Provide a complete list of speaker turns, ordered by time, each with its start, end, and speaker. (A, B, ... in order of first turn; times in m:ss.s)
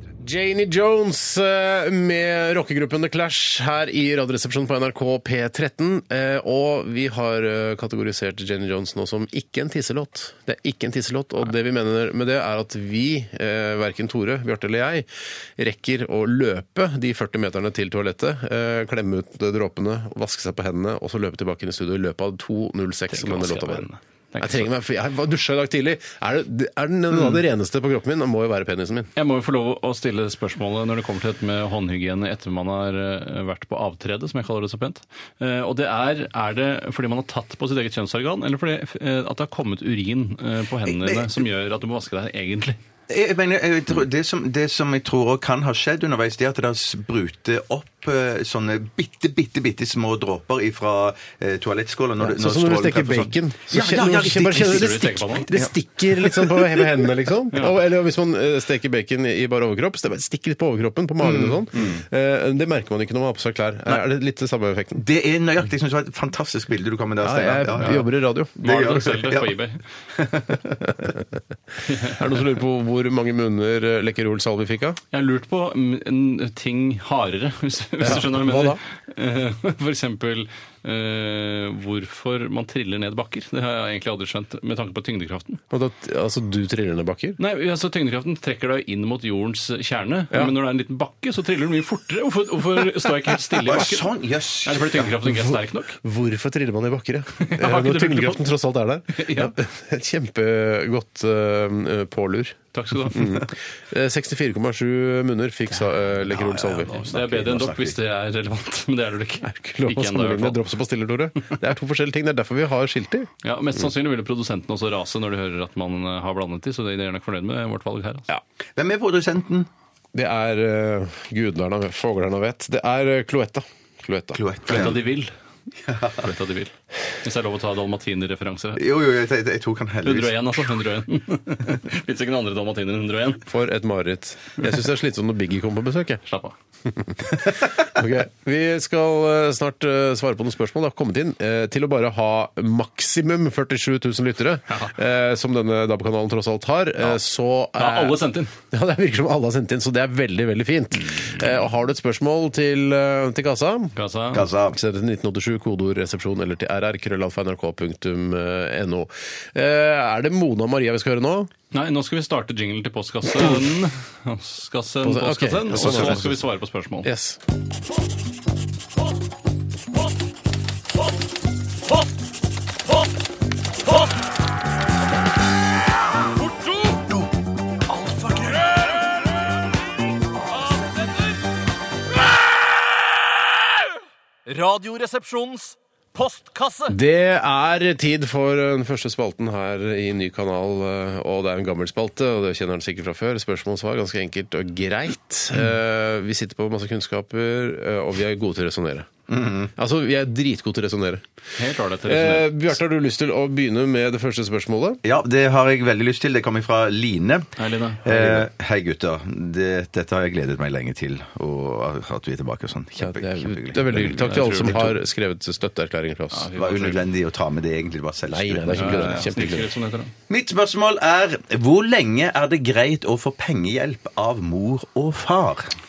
0:00.2-0:23.9 A
0:23.1-0:24.7 B
0:24.4-0:29.1 A
0:29.2-0:42.8 B
0:41.0-0:41.3 C
0:43.1-0:56.8 C
0:52.2-1:05.0 A
0:54.5-0:55.5 B
1:01.2-1:01.6 C
1:05.0-1:08.1 C
1:07.2-1:08.7 A
1:08.6-1:09.8 B
1:08.6-1:09.5 C
1:10.1-1:11.0 C
1:11.8-1:12.2 B
1:12.0-1:15.0 A
1:15.1-1:25.6 B
1:18.0-1:18.8 A
1:25.7-1:27.4 A
1:27.4-1:34.1 B
1:33.6-1:35.1 C
1:34.6-1:36.0 B
1:35.2-1:47.3 A
1:37.4-1:38.4 B
1:39.1-1:39.5 B
1:42.7-1:43.4 B
1:46.3-1:48.0 C
1:47.1-1:50.6 B
1:49.4-1:53.3 A
1:53.4-1:58.3 B
1:58.8-1:59.7 C
2:00.1-2:04.4 A
2:04.3-2:05.0 C
2:04.7-2:05.3 B
2:05.8-2:06.3 C
2:06.2-2:08.8 B
2:08.8-2:10.4 C
2:10.0-2:13.5 B
2:13.5-2:16.2 A
2:16.2-2:16.5 B
2:16.8-2:34.0 A
2:27.8-2:28.5 B
2:33.9-2:34.4 B
2:34.3-2:34.8 C
2:34.7-2:41.5 A
2:41.7-2:47.1 B
2:45.0-2:46.4 A
2:47.0-2:47.4 A
2:56.4-2:57.0 B
2:57.9-2:59.1 B
3:00.6-3:01.4 B
3:04.5-3:07.0 B
3:06.9-3:19.1 A
3:19.3-3:19.7 C
3:19.8-3:21.2 A
3:21.6-3:22.6 B
3:22.0-3:25.0 A
3:25.0-3:27.5 C
3:27.6-3:28.0 B
3:28.0-3:34.9 C
3:28.1-3:28.5 A
3:33.0-3:36.5 A
3:34.0-3:35.0 B
3:36.3-3:37.0 B
3:36.6-3:39.3 C
3:38.3-3:39.7 A
3:38.7-3:40.1 B
3:40.3-3:45.7 C